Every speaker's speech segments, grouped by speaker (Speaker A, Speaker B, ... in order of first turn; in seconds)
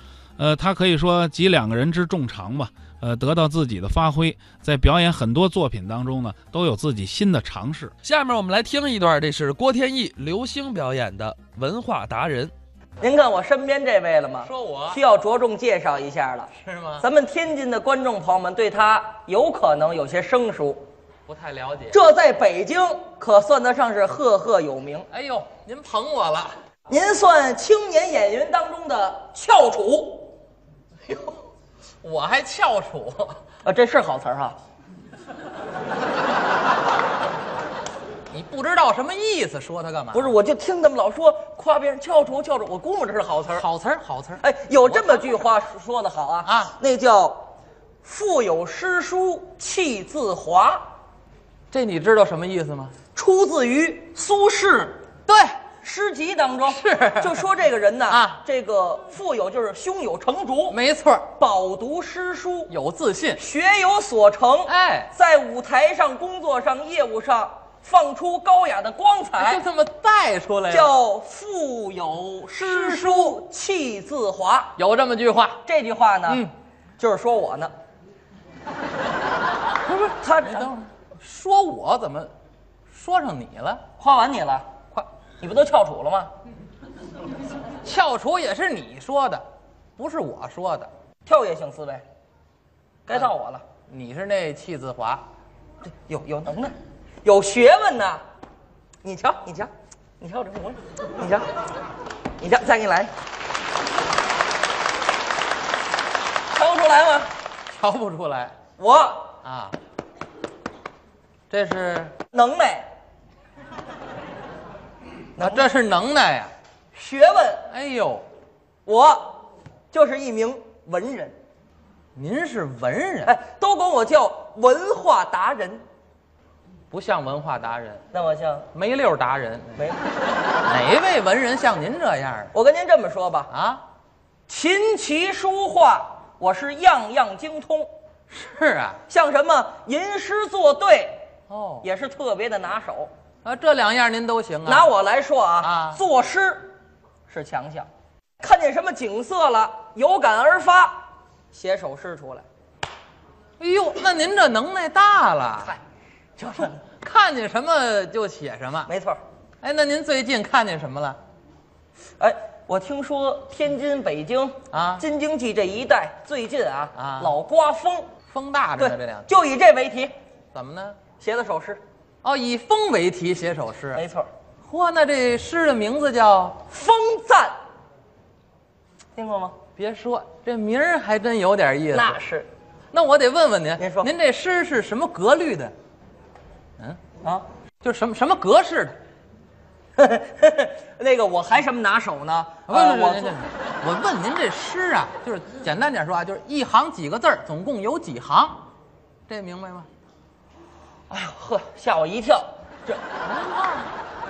Speaker A: 0.4-7.9
Speaker B: 8.0-12.5
Speaker C: 13.0-20.9, 21.9-25.1, 26.9-30.3, 33.6-34.6, 40.1-43.7, 44.4-47.5, 48.0-50.9, 53.1-55.0, 55.8-60.8, 61.3-62.7, 63.4-69.6, 70.7-74.8, 75.6-77.7, 80.2-80.7, 84.0-84.7, 85.4-86.3, 91.2-92.0, 93.1-93.6, 95.8-98.2, 99.0-101.5, 102.4-103.1, 106.5-107.3, 108.8-109.3, 112.3-112.9, 115.4-115.7, 116.9-117.7, 118.9-119.4, 119.9-121.4, 123.2-125.8, 128.1-128.7, 132.5-133.5, 134.5-137.9, 139.1-141.2, 141.8-143.1, 144.7-146.7, 147.3-147.9, 148.4-152.4, 156.4-156.8, 158.9-159.2, 162.2-168.1, 168.8-170.1, 171.2-171.8, 173.9-174.3, 176.7-177.5, 179.2-179.6, 181.9-182.5, 183.8-184.1, 190.0-193.4, 201.1-203.0
Speaker D: 14.4-15.0, 16.5-17.1, 21.3-22.0, 25.1-26.5, 31.1-31.4, 32.0-33.4, 38.3-40.3, 43.5-45.4, 46.4-46.8, 51.7-52.9, 55.3-55.6, 56.7-57.5, 58.1-58.4, 60.7-61.3, 62.7-63.4, 64.7-65.1, 69.4-70.9, 72.6-73.4, 74.8-75.6, 79.9-82.3, 82.9-83.8, 87.8-89.4, 90.0-90.9, 93.9-95.2, 107.7-108.5, 109.4-109.8, 111.5-112.1, 115.4-116.5, 117.7-118.3, 122.1-123.4, 126.9-128.0, 128.7-129.8, 130.7-132.5, 133.5-133.8, 138.3-139.0, 141.5-141.9, 143.4-144.9, 145.6-146.0, 153.6-155.8, 156.8-158.9, 159.6-161.2, 164.7-165.1, 166.9-167.4, 168.3-169.3, 170.5-171.0, 172.2-174.0, 174.6-176.6, 179.8-182.2, 182.9-185.7, 187.8-189.0, 192.7-198.7, 199.3-199.9, 203.2-203.9